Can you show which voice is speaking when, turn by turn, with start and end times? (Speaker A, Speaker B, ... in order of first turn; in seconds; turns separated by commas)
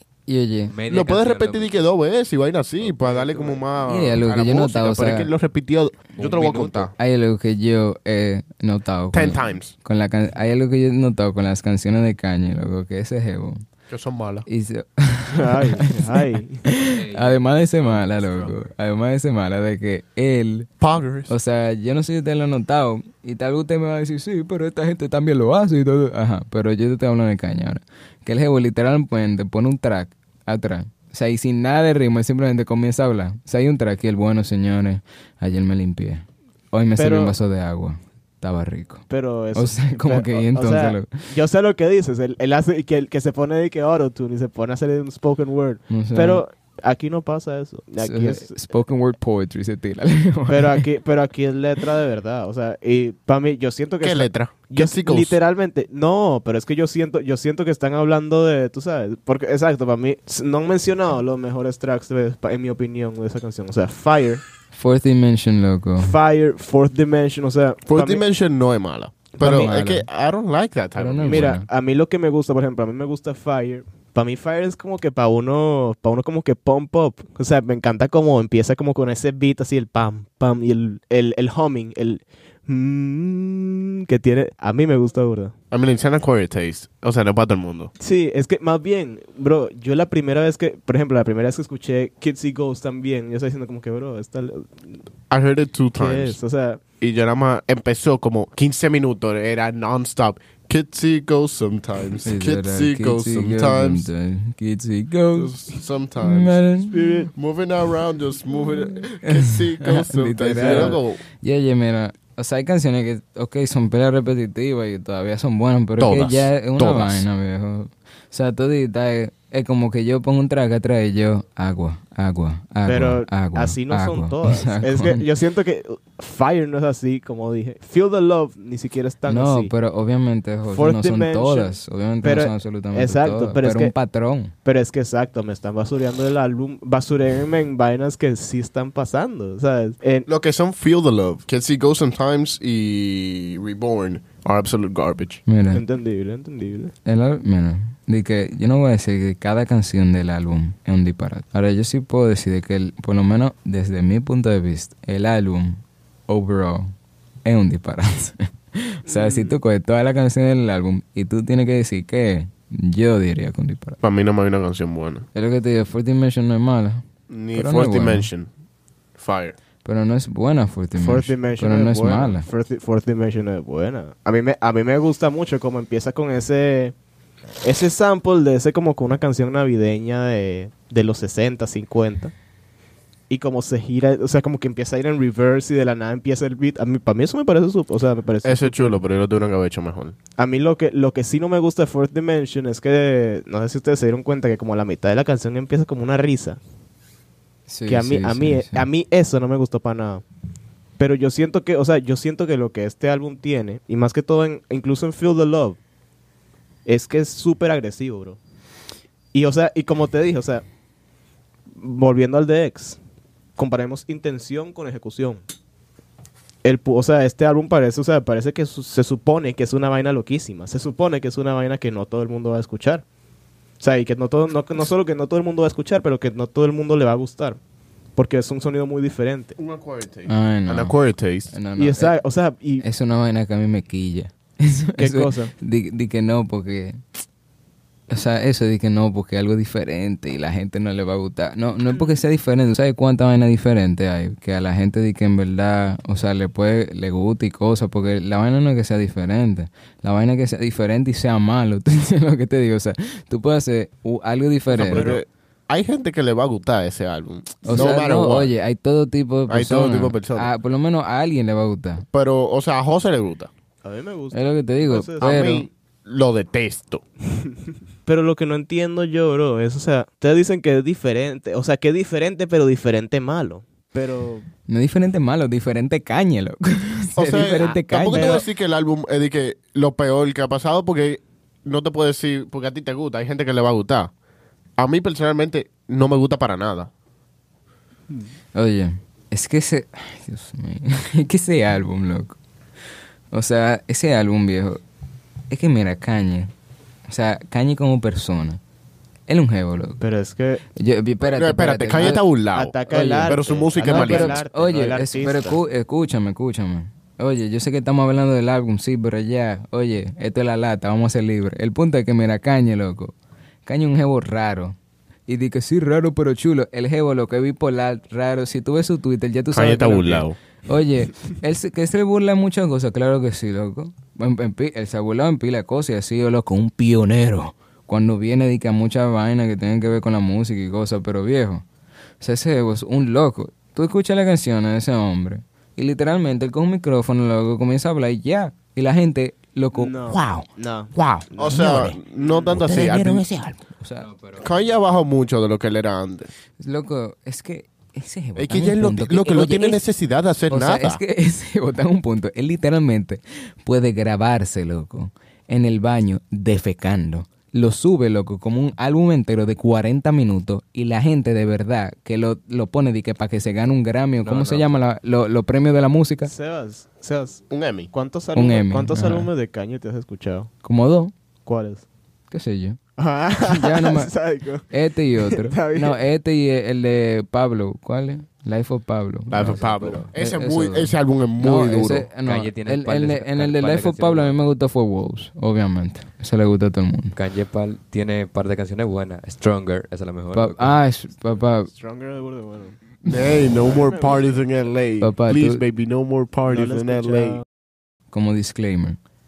Speaker A: 0.3-0.7, Speaker B: 0.7-1.7, Speaker C: 0.9-6.9, Speaker B: 2.8-3.6, Speaker A: 3.9-5.3, Speaker B: 6.2-6.9, Speaker A: 7.0-13.6, Speaker C: 9.1-9.7, Speaker C: 13.9-14.5, Speaker A: 14.5-16.0, Speaker D: 15.3-16.6, Speaker A: 16.6-20.7, Speaker B: 16.9-18.6, Speaker C: 20.8-21.3, Speaker A: 21.3-41.1, Speaker D: 37.0-37.4, Speaker D: 39.1-48.6, Speaker A: 45.9-46.4, Speaker A: 48.0-50.9, Speaker D: 50.5-64.4, Speaker C: 54.0-55.4, Speaker A: 64.7-66.1, Speaker D: 66.0-68.2, Speaker C: 67.8-71.5, Speaker D: 69.3-69.7, Speaker A: 69.4-70.1, Speaker A: 71.0-71.7, Speaker D: 71.2-85.5, Speaker C: 85.7-87.9, Speaker D: 88.0-94.8, Speaker C: 95.3-96.4, Speaker D: 96.0-96.8, Speaker C: 97.0-104.1, Speaker A: 102.2-105.5, Speaker C: 105.3-106.6, Speaker A: 106.2-107.3, Speaker D: 106.8-107.3, Speaker C: 107.3-111.2, Speaker A: 108.9-125.2, Speaker D: 110.5-111.0, Speaker C: 116.0-117.3, Speaker D: 122.8-129.7, Speaker A: 129.3-134.5, Speaker D: 130.7-133.9, Speaker D: 134.6-140.3, Speaker C: 140.2-145.4, Speaker A: 145.5-145.8, Speaker D: 145.7-146.9, Speaker A: 147.0-156.9, Speaker A: 157.4-164.0, Speaker D: 159.1-159.6, Speaker C: 164.0-165.2, Speaker A: 165.3-167.0, Speaker C: 167.3-168.5, Speaker A: 167.5-168.3, Speaker C: 169.2-169.6, Speaker A: 169.8-172.4, Speaker D: 171.0-176.9, Speaker D: 177.6-182.3, Speaker D: 183.3-189.0, Speaker C: 188.4-190.2, Speaker D: 190.4-196.6, Speaker A: 197.7-198.8, Speaker D: 197.8-200.2, Speaker D: 201.0-205.8, Speaker D: 206.8-208.4, Speaker D: 209.3-210.6, Speaker D: 211.8-213.0, Speaker D: 213.6-215.4, Speaker D: 216.6-223.0, Speaker D: 223.8-227.6, Speaker D: 228.2-229.5, Speaker C: 229.6-231.5, Speaker A: 230.3-230.9, Speaker A: 231.5-232.1, Speaker D: 231.7-232.8, Speaker A: 232.8-237.0, Speaker D: 235.0-235.5, Speaker A: 238.1-255.1, Speaker D: 241.9-242.2, Speaker C: 254.7-258.5, Speaker D: 254.9-255.2, Speaker A: 257.6-262.0, Speaker C: 259.5-260.5, Speaker C: 262.1-263.5, Speaker D: 263.8-265.3, Speaker A: 264.3-265.7, Speaker C: 265.2-267.0, Speaker D: 268.0-274.4, Speaker A: 274.7-278.4, Speaker C: 277.1-284.1, Speaker D: 278.1-278.4, Speaker C: 284.8-286.9, Speaker A: 288.5-292.4, Speaker A: 293.3-294.8, Speaker A: 295.5-296.5, Speaker A: 297.1-298.6, Speaker A: 299.3-300.0, Speaker D: 300.0-300.6, Speaker A: 300.8-302.2, Speaker C: 301.2-302.7, Speaker D: 302.5-305.6, Speaker A: 302.9-313.1, Speaker C: 303.3-304.4, Speaker A: 313.6-314.8, Speaker A: 315.3-331.6, Speaker C: 319.5-320.4, Speaker A: 332.2-342.0, Speaker D: 339.7-342.9, Speaker C: 341.4-343.3, Speaker A: 342.6-344.1, Speaker B: 344.0-344.5, Speaker C: 344.4-346.3, Speaker A: 346.6-349.8, Speaker C: 348.4-351.0, Speaker A: 350.5-366.3, Speaker B: 364.2-364.7, Speaker D: 366.2-370.5, Speaker C: 367.5-367.9, Speaker A: 368.3-369.3, Speaker A: 370.6-371.1, Speaker D: 371.4-371.9, Speaker A: 372.3-372.8, Speaker D: 373.0-376.0, Speaker A: 373.4-374.1, Speaker A: 374.7-387.1, Speaker C: 379.3-382.1, Speaker B: 379.4-380.1, Speaker B: 382.2-384.3, Speaker B: 387.1-390.8, Speaker A: 390.3-391.7, Speaker D: 391.7-392.8, Speaker C: 393.0-397.4, Speaker A: 393.1-393.4, Speaker D: 393.7-394.1, Speaker A: 395.0-395.6, Speaker D: 396.5-397.4, Speaker A: 398.1-399.0